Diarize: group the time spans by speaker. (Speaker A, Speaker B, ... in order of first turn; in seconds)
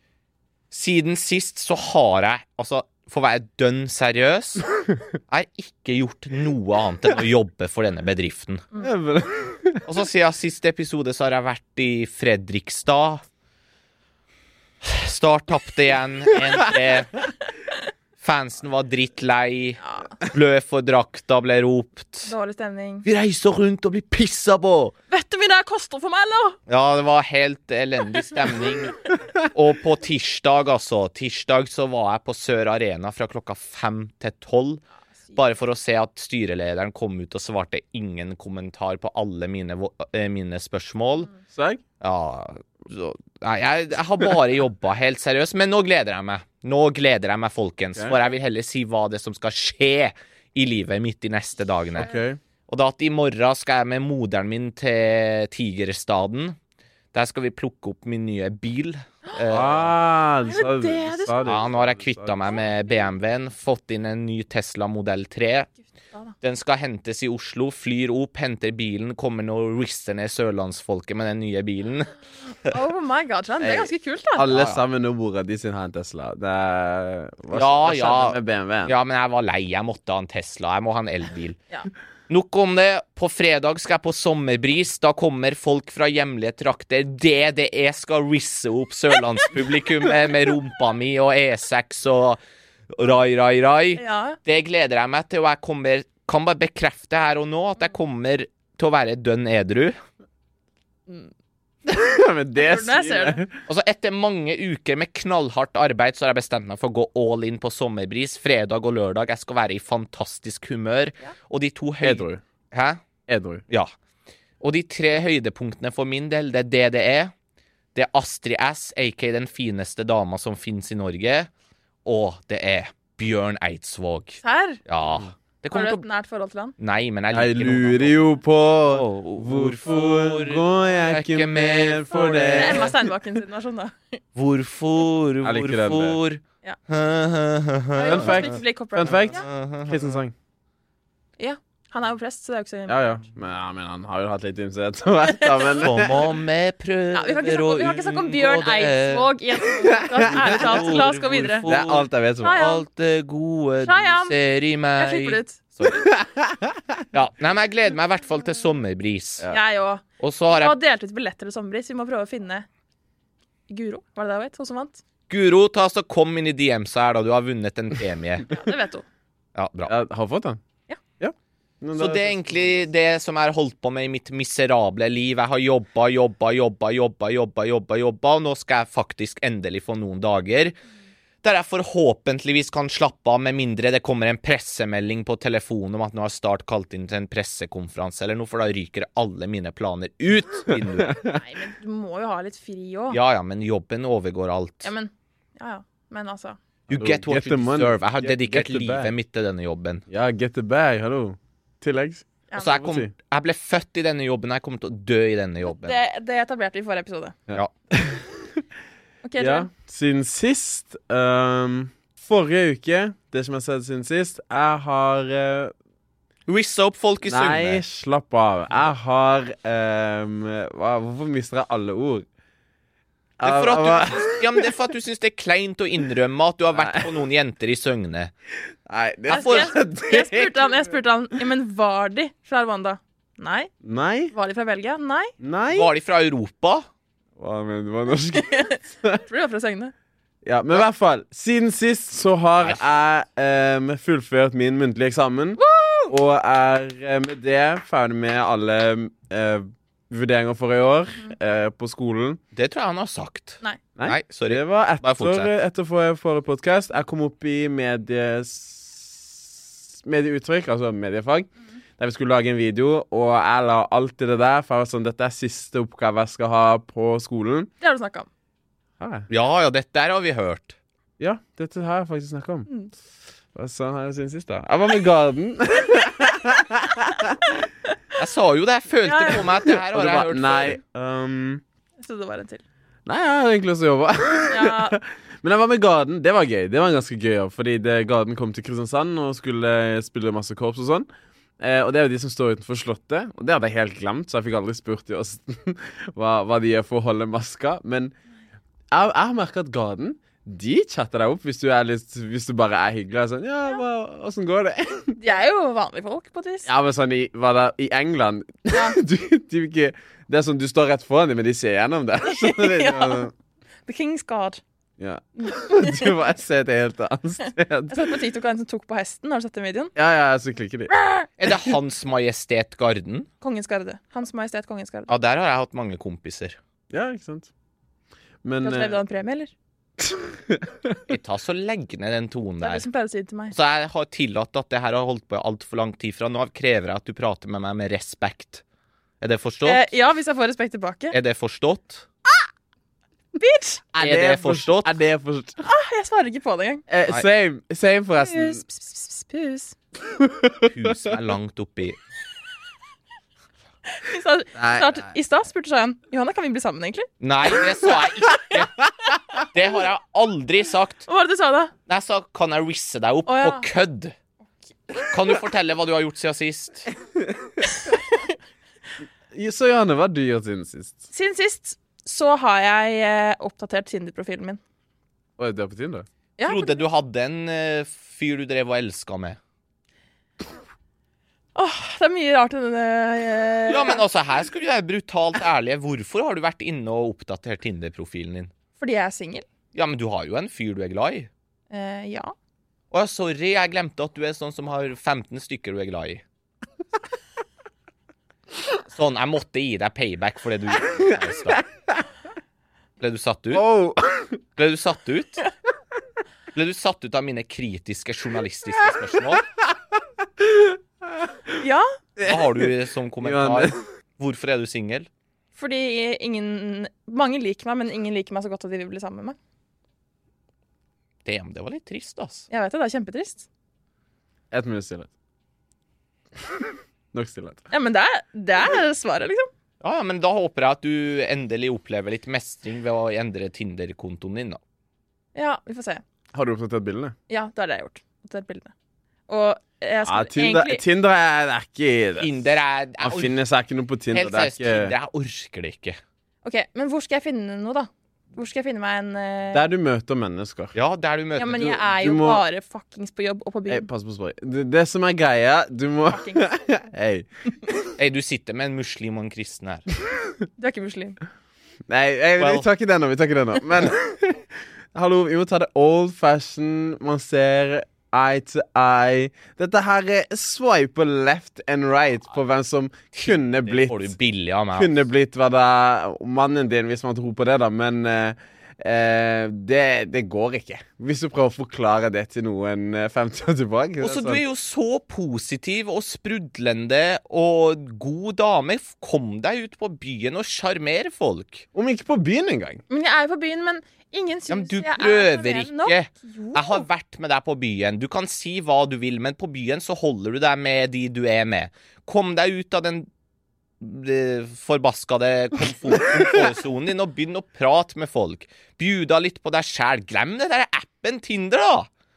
Speaker A: 0.7-4.7, 5.3-8.6, 9.8-13.2, 14.8-17.3, 18.2-22.3, 23.1-24.9, 26.7-34.8, 35.4-41.3, 42.0-52.1, 52.7-56.6, 57.1-59.9, 61.4-65.7, 66.4-72.7, 74.5-74.8, 77.5-81.6, 82.3-100.0, 103.7-113.0, 114.6-117.3, 118.0-121.5, 122.0-126.0, 126.8-128.2, 128.8-132.9, 134.4-138.5, 139.1-140.1, 145.8-149.3, 150.2-156.2, 157.1-159.5, 160.2-160.8, 165.3-168.6, 169.6-169.9, 171.9-180.8, 181.4-191.2, 193.1-194.9, 196.9-200.0, 202.6-206.0, 216.5-217.8, 223.4-228.3, 229.3-229.8, 235.7-236.8, 252.6-255.5, 269.3-270.8, 278.2-280.8, 321.4-323.3, 325.1-326.6, 331.1-332.9, 333.5-338.6, 339.2-339.9, 341.1-342.1, 344.0-345.0, 350.7-352.0, 357.2-361.1, 361.9-364.1, 365.0-366.9, 376.4-379.4, 383.7-388.5, 389.7-391.3, 392.9-396.2, 398.9-401.6, 403.0-403.7, 404.6-405.4, 406.5-409.4, 412.3-415.1, 421.2-422.5, 429.8-434.6, 442.2-443.4, 444.1-446.0, 450.8-451.8, 458.0-459.9, 462.4-462.7, 473.2-475.0, 484.0-491.7, 494.5-503.1, 503.8-511.9
Speaker B: 8.8-9.8, 41.5-41.8, 52.0-52.4, 59.5-62.4, 73.6-79.0, 101.9-103.6, 112.0-112.4, 113.3-113.6, 127.3-133.1, 135.4-136.2, 138.1-140.3, 142.9-146.2, 149.8-151.1, 151.7-152.7, 156.0-156.8, 169.9-170.6, 171.2-172.9, 190.7-191.4, 196.9-199.1, 200.1-203.1, 207.5-208.7, 209.4-215.7, 217.3-222.3, 223.4-224.7, 226.8-227.1, 228.9-230.9, 233.8-234.3, 235.4-235.9, 237.4-239.2, 240.4-252.4, 254.0-267.7, 269.0-269.3, 271.2-272.7, 273.6-277.5, 279.6-281.6, 283.1-291.1, 291.6-298.1, 298.9-305.2, 306.7-313.3, 315.0-318.1, 320.0-320.9, 326.9-327.5, 328.4-329.0, 330.0-331.0, 343.9-345.6, 346.9-348.6, 350.1-351.1, 354.6-355.1, 367.2-367.6, 369.3-371.1, 375.4-376.1, 403.5-404.4, 410.4-411.5, 412.2-412.7, 413.2-413.8, 424.5-425.1, 427.1-427.6, 436.3-437.1, 440.1-442.4, 443.0-444.9, 449.5-450.7, 451.6-452.4, 453.7-457.9, 461.9-474.1, 474.8-484.4, 491.7-492.8
Speaker C: 19.8-20.2, 22.3-23.1, 25.1-26.6, 60.5-61.6, 72.7-74.5, 94.0-94.4, 102.6-103.4, 124.4-124.8, 125.7-126.8, 132.1-134.2, 137.9-139.5, 141.4-143.0, 145.4-145.8, 147.1-151.7, 152.4-152.8, 153.8-154.4, 155.0-155.6, 159.5-162.7, 163.7-165.0, 168.5-169.1, 191.3-193.2, 194.8-196.6, 205.7-207.4, 209.2-209.7, 229.3-233.7, 234.3-235.3, 238.3-239.9, 245.6-246.1, 267.8-268.3, 279.1-279.5, 282.0-282.6, 284.5-285.0, 305.2-306.7, 308.7-309.0, 312.4-313.3, 313.9-314.6, 315.4-316.1, 317.9-319.9, 323.4-325.1, 328.6-329.5, 332.6-333.5, 339.6-341.2, 343.4-343.8, 345.6-346.9, 348.2-349.8, 353.9-357.1, 361.1-361.7, 363.3-363.7, 367.6-368.2, 371.1-374.6, 376.4-376.8, 381.6-384.0, 388.8-389.4, 391.7-392.3, 411.6-411.9, 415.6-419.4, 422.5-423.5, 427.7-429.5, 435.4-436.0, 437.3-438.7, 439.3-440.8, 446.4-449.7, 451.4-453.9, 456.1-456.5, 460.6-461.2, 492.9-496.8